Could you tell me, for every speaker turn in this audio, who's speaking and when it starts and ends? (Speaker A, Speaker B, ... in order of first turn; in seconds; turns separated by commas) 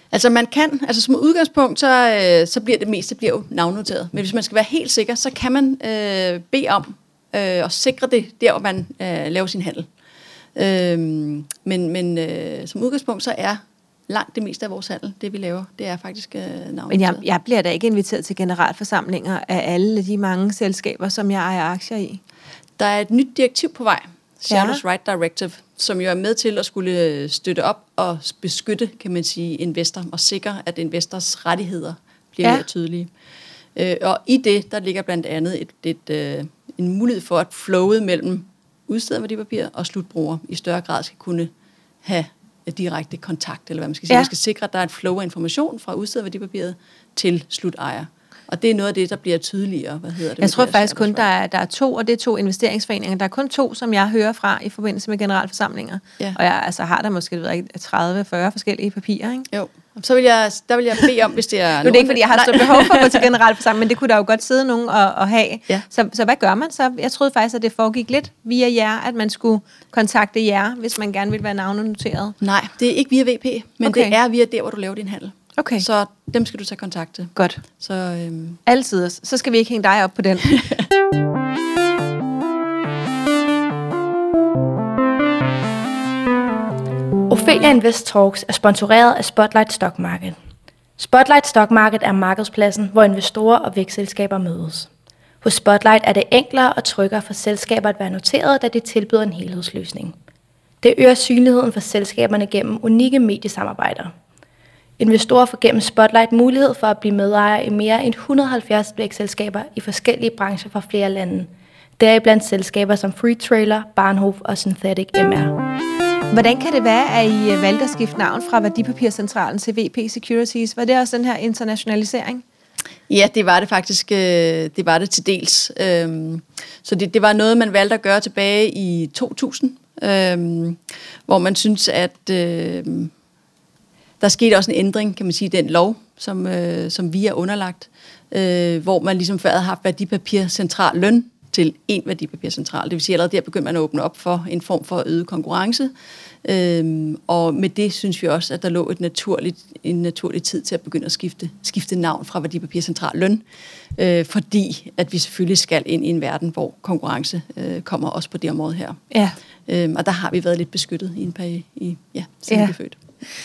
Speaker A: 0.1-9.9, Speaker A: 10.5-17.2, Speaker B: 16.9-22.2, Speaker A: 22.8-33.1, Speaker B: 24.5-24.8, Speaker A: 33.7-41.5, Speaker A: 42.0-51.2, Speaker B: 50.4-59.5, Speaker A: 59.5-63.2, Speaker B: 61.8-72.3, Speaker A: 72.4-78.6, Speaker B: 73.8-74.1, Speaker B: 75.6-75.8, Speaker B: 77.3-77.6, Speaker B: 78.7-80.5, Speaker C: 87.3-90.3, Speaker C: 91.0-94.9, Speaker C: 95.4-100.1, Speaker C: 100.8-104.1, Speaker C: 105.0-115.5, Speaker B: 116.3-122.4, Speaker A: 123.1-133.1, Speaker A: 134.2-145.9, Speaker A: 146.4-153.4, Speaker A: 153.9-159.0, Speaker B: 159.1-159.4, Speaker A: 159.7-163.0, Speaker B: 162.5-162.7